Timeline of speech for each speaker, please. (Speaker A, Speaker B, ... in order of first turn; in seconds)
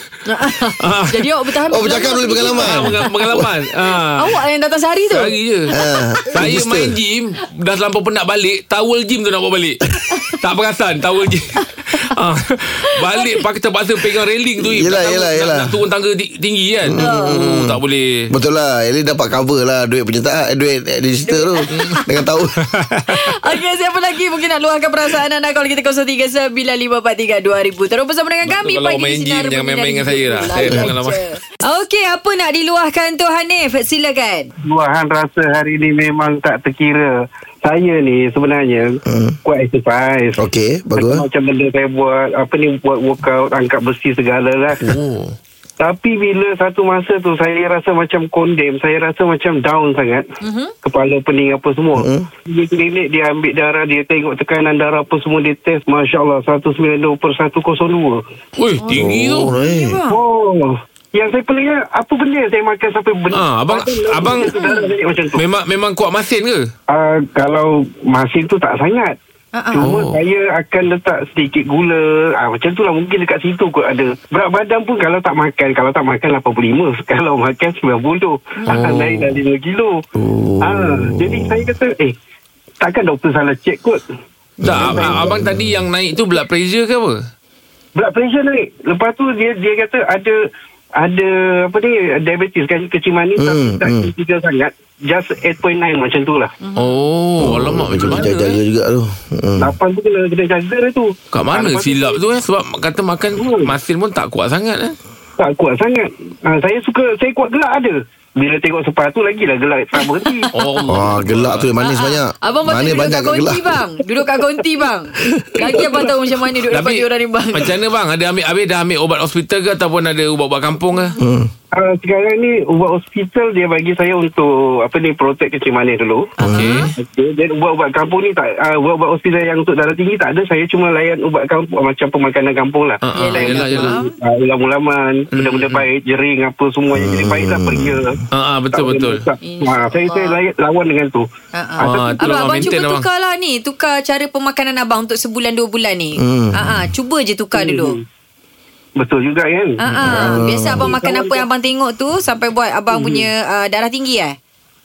Speaker A: 0.2-3.1, 4.2-6.4, 13.0-13.4, 17.0-17.5, 21.2-22.0, 23.1-34.5, 50.4-50.7, 58.8-60.2, 64.4-64.9, 69.5-69.9, 96.6-97.0, 111.8-117.7, 126.4-126.9, 133.1-134.1, 139.4-140.4, 141.5-148.0, 149.8-154.3
Speaker B: 0.5-1.2, 2.6-4.4, 5.1-5.7, 6.3-18.3, 21.7-22.0, 22.6-23.3, 28.4-31.2, 44.8-45.4, 58.6-59.5, 63.3-64.6, 65.3-66.7, 69.8-70.2, 78.7-79.3, 84.6-87.2, 96.8-98.6, 101.3-105.0, 110.5-111.7, 116.7-121.2, 126.4-126.9, 133.0-134.0, 135.3-135.8, 138.3-139.2, 141.8-143.1
Speaker C: 1.7-3.5, 5.7-7.0, 14.6-15.8, 16.8-17.8, 18.3-22.6, 30.5-30.9, 39.1-39.4, 40.4-41.2, 52.0-52.2, 58.9-60.0, 80.2-81.7, 84.6-85.8, 93.4-94.1, 97.4-99.7, 110.9-113.8, 121.2-121.5, 126.4-126.8, 136.9-138.2, 146.2-146.9, 149.9-150.9
Speaker D: 34.6-37.1, 37.6-40.4, 41.0-44.9, 45.8-50.2, 50.8-58.2, 60.1-65.4, 66.9-69.2, 69.7-80.0, 80.6-82.1, 82.8-84.0, 84.7-85.2, 88.0-90.3, 91.0-96.5, 99.6-102.2, 103.3-103.7, 105.4-110.5, 115.6-116.1, 121.7-126.3, 126.9-138.2, 138.7-141.2, 141.8-142.6, 147.5-148.0, 149.0-151.4, 152.9-153.3